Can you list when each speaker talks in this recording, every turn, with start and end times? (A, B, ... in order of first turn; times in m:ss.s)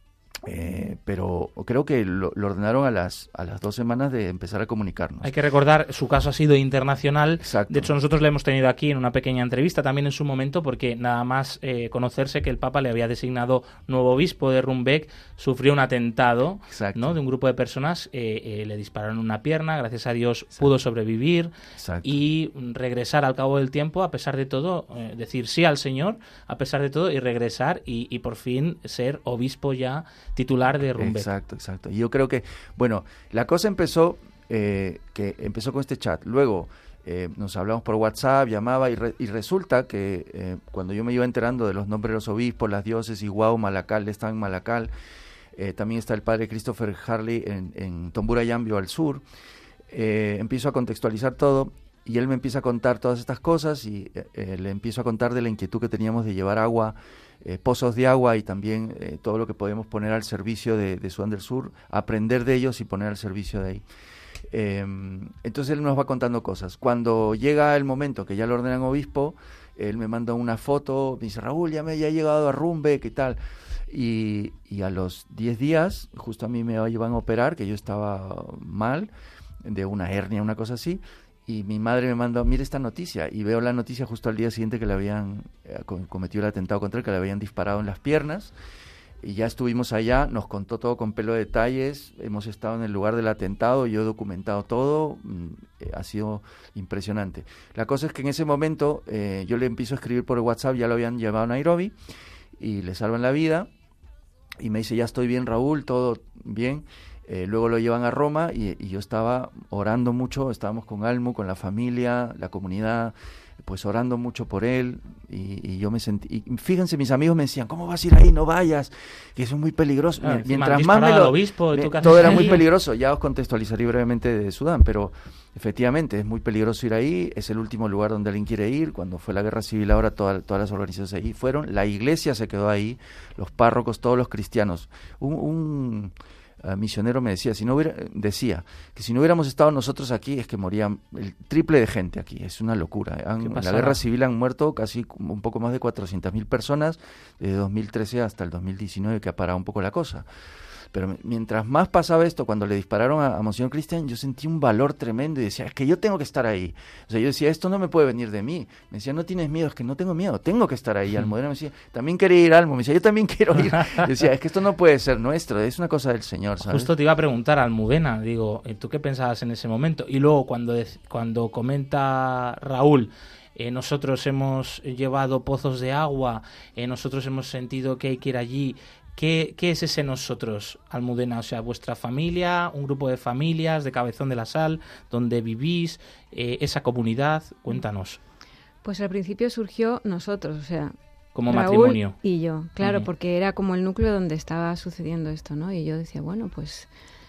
0:00.4-0:05.3 A
0:05.2-0:21.5 B
0:07.4-0:07.9 A
0:16.7-0:17.2 A
0:21.8-0:22.2 A
0:22.0-0:31.3 B
0:30.8-0:44.9 A
0:45.5-0:49.2 A
0:49.9-1:03.8 A
1:04.5-1:19.1 A
1:19.6-1:28.5 A
1:29.2-1:42.0 A
1:42.6-1:43.7 A
1:44.6-2:30.3 A
2:00.2-2:02.6 B
2:23.4-2:24.0 B
2:30.9-2:46.9 A
2:46.6-3:08.2 B
3:08.8-3:10.9 C
3:11.3-3:12.2 B
3:11.4-3:16.9 C
3:12.8-3:13.1 B